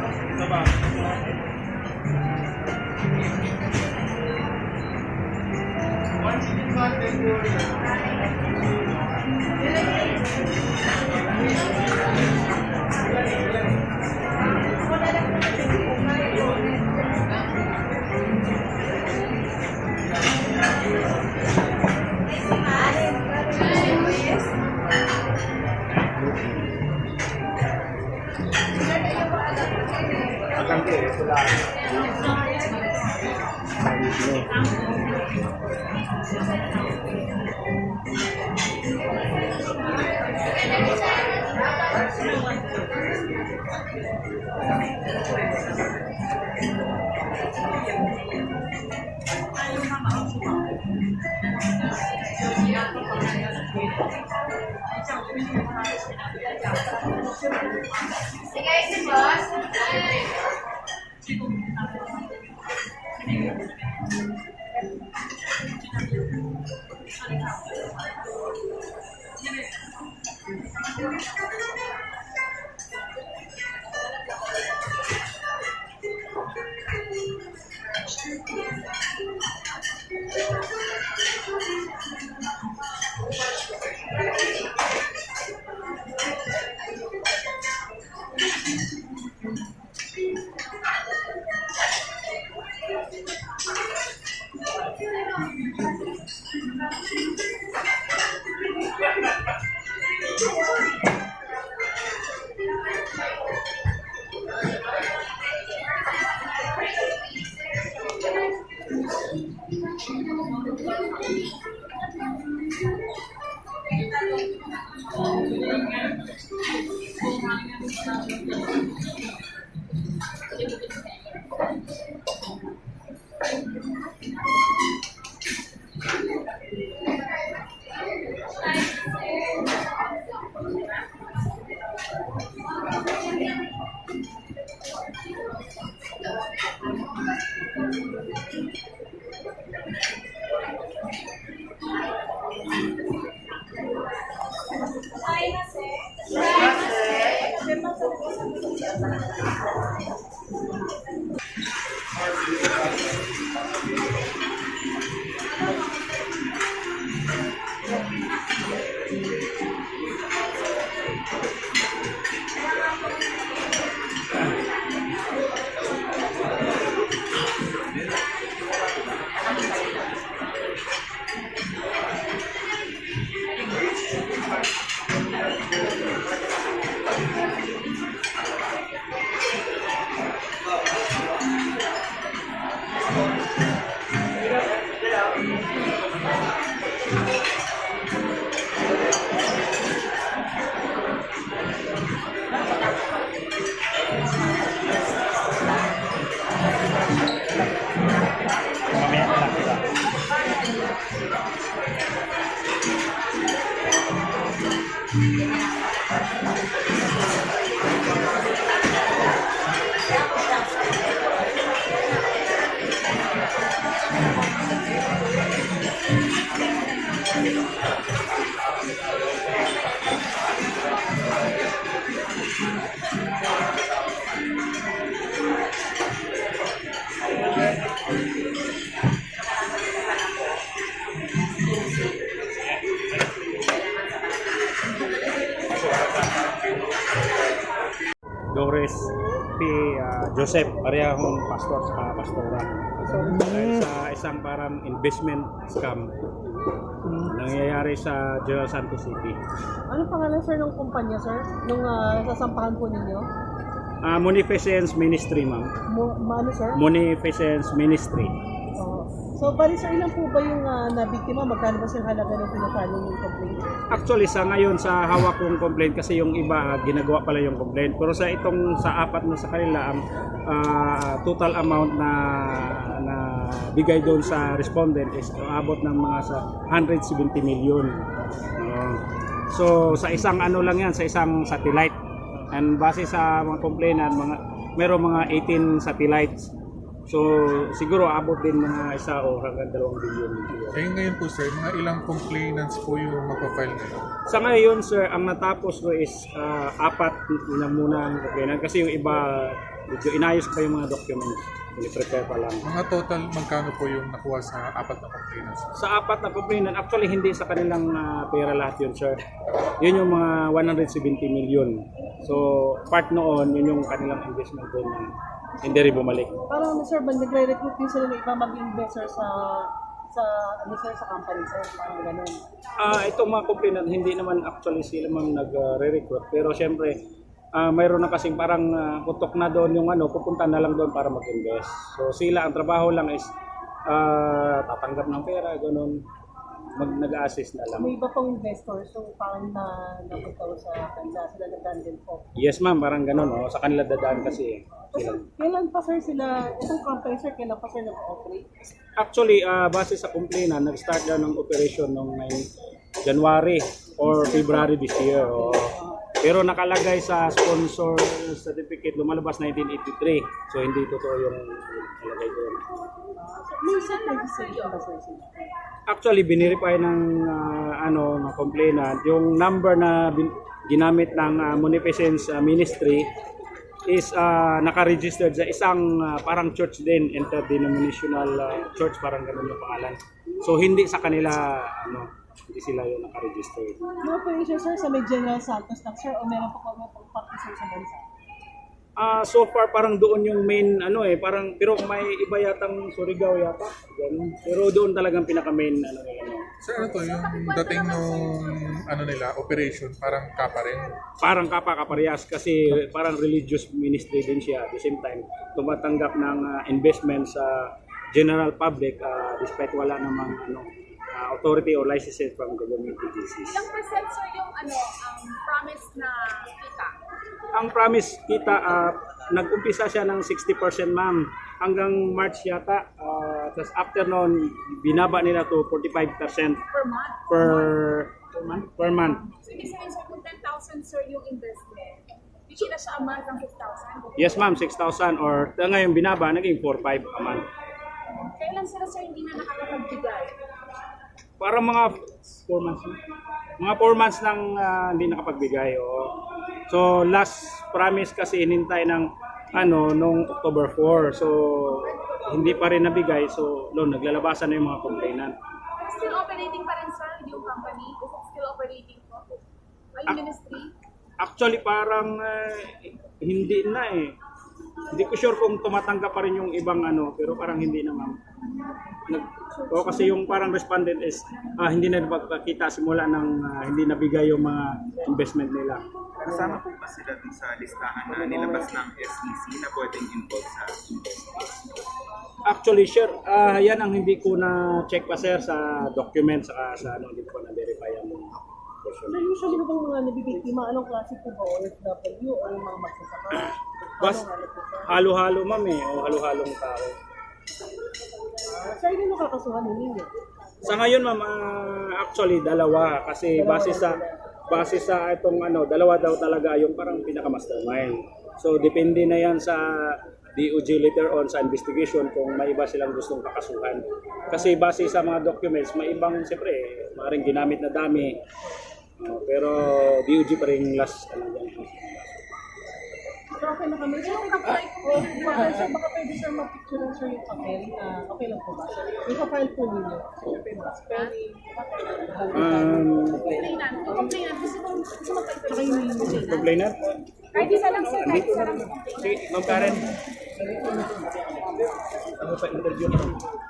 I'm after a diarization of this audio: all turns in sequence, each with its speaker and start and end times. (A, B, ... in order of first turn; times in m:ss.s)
0:30.5-0:31.6 A
0:33.9-0:34.5 A
2:25.4-2:27.8 B
3:18.9-3:19.8 A
3:52.9-3:53.4 A
3:55.7-3:56.6 A
3:58.5-4:06.3 A
4:07.2-4:09.4 A
4:09.9-4:13.3 C
4:14.0-4:15.7 A
4:15.9-4:16.8 C
4:16.8-4:18.3 A
4:18.8-4:23.6 C
4:23.9-4:38.0 A
4:38.6-4:39.0 A
4:39.5-4:42.0 A
4:42.5-4:46.5 A
4:47.1-4:50.8 A
4:50.7-4:54.0 D
4:54.3-5:02.6 A
5:02.6-5:05.7 D
5:05.7-5:09.2 A
5:09.8-5:15.1 A
5:15.6-5:16.4 A
5:16.5-5:22.4 C
5:22.8-5:27.0 A
5:27.5-5:33.3 A
5:33.9-5:36.0 A
5:36.8-5:37.9 A
5:37.8-5:42.2 C
5:42.4-5:45.2 A
5:44.9-5:48.7 C
5:49.0-5:52.5 A
5:53.0-6:02.6 A
5:54.0-5:56.0 C
6:03.2-6:05.4 C
6:03.7-6:04.8 B
6:05.9-6:13.1 A
6:13.9-6:23.8 A
6:24.0-6:28.0 C
6:29.0-6:36.5 A
6:36.6-6:41.0 D
6:36.9-6:38.8 B
6:41.2-6:53.6 A
6:53.5-6:56.9 B
6:57.5-7:06.6 A
7:06.7-7:07.7 B
7:07.3-7:09.3 A
7:09.3-7:14.5 B
7:14.2-7:17.5 A
7:18.1-7:20.3 B
7:21.4-7:23.0 A
7:23.6-7:26.2 A
7:26.7-7:35.4 A
7:35.8-7:39.4 B
7:39.9-7:40.7 B
7:41.2-7:44.2 A
7:44.9-7:48.2 A
7:49.1-7:55.8 A
7:49.4-7:50.2 B
7:56.2-8:01.5 E
8:02.4-8:09.4 A
8:09.1-8:14.9 C
8:13.3-8:14.2 A
8:14.8-8:17.0 A
8:18.5-8:20.1 C
8:20.6-8:38.2 A
8:23.3-8:24.2 C
8:39.0-8:42.2 A
8:43.4-8:54.1 C
8:44.0-8:45.7 B
8:50.9-8:51.2 B
8:52.3-8:53.3 A
8:53.2-8:56.4 B
8:55.5-8:56.4 C
8:56.2-8:57.0 A
8:57.3-8:59.2 B
8:57.7-8:59.9 A
9:00.5-9:01.7 A
9:02.2-9:03.2 A